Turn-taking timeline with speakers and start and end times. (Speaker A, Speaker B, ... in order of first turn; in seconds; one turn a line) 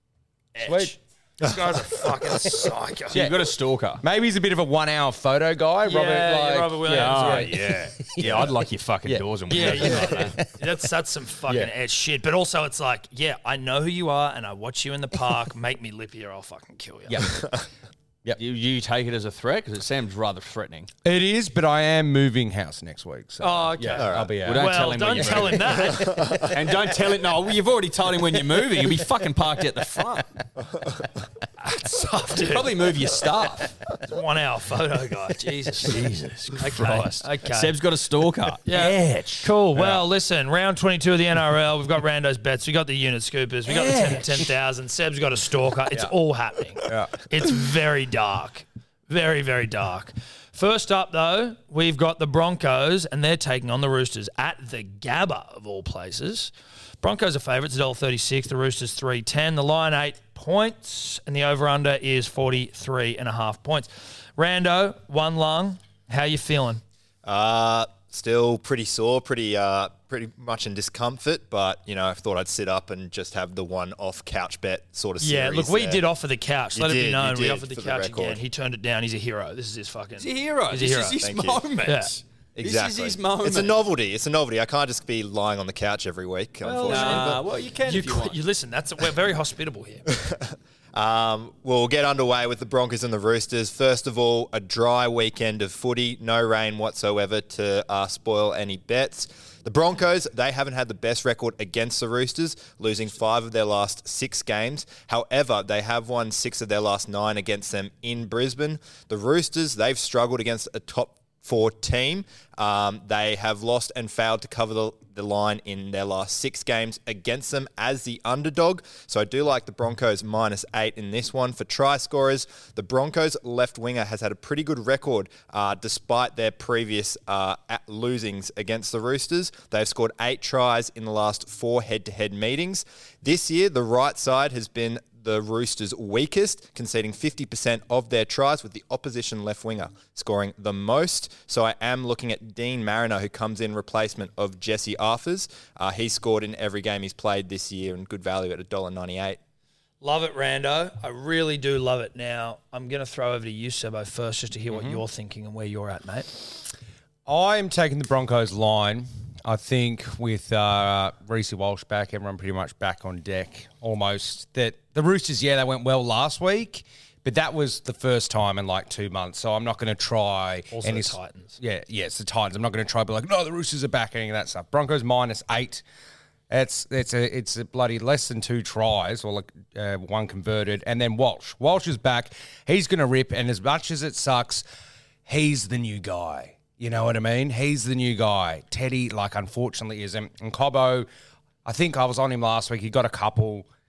Speaker A: 0.5-3.3
Speaker B: 0.6-0.9
Speaker C: 3.1-4.0
Speaker B: 3.1-3.5
Speaker B: 4.0-10.5
Speaker A: 5.8-7.5
Speaker C: 6.9-10.4
Speaker A: 9.5-17.3
Speaker B: 17.1-17.5
Speaker C: 18.4-20.9
Speaker B: 21.0-26.2
Speaker A: 23.4-26.3
Speaker D: 24.0-24.3
Speaker C: 24.4-30.3
Speaker D: 26.0-26.5
Speaker A: 31.6-32.8
Speaker C: 32.4-33.7
Speaker A: 34.0-36.0
Speaker C: 35.8-40.0
Speaker A: 36.6-37.7
Speaker A: 38.6-66.8
Speaker C: 43.8-44.1
Speaker B: 46.8-47.1
Speaker D: 67.2-76.0
Speaker A: 75.2-81.2
Speaker D: 76.7-78.4
Speaker C: 80.2-83.8
Speaker D: 81.2-81.6
Speaker A: 81.8-82.2
Speaker D: 82.5-87.4
Speaker C: 86.6-88.4
Speaker A: 86.8-90.0
Speaker D: 90.1-149.4
Speaker A: 150.0-156.4
Speaker B: 154.7-155.0
Speaker B: 157.2-175.8
Speaker A: 170.7-171.6
Speaker B: 176.5-184.6
Speaker B: 185.2-191.1
Speaker B: 191.6-193.7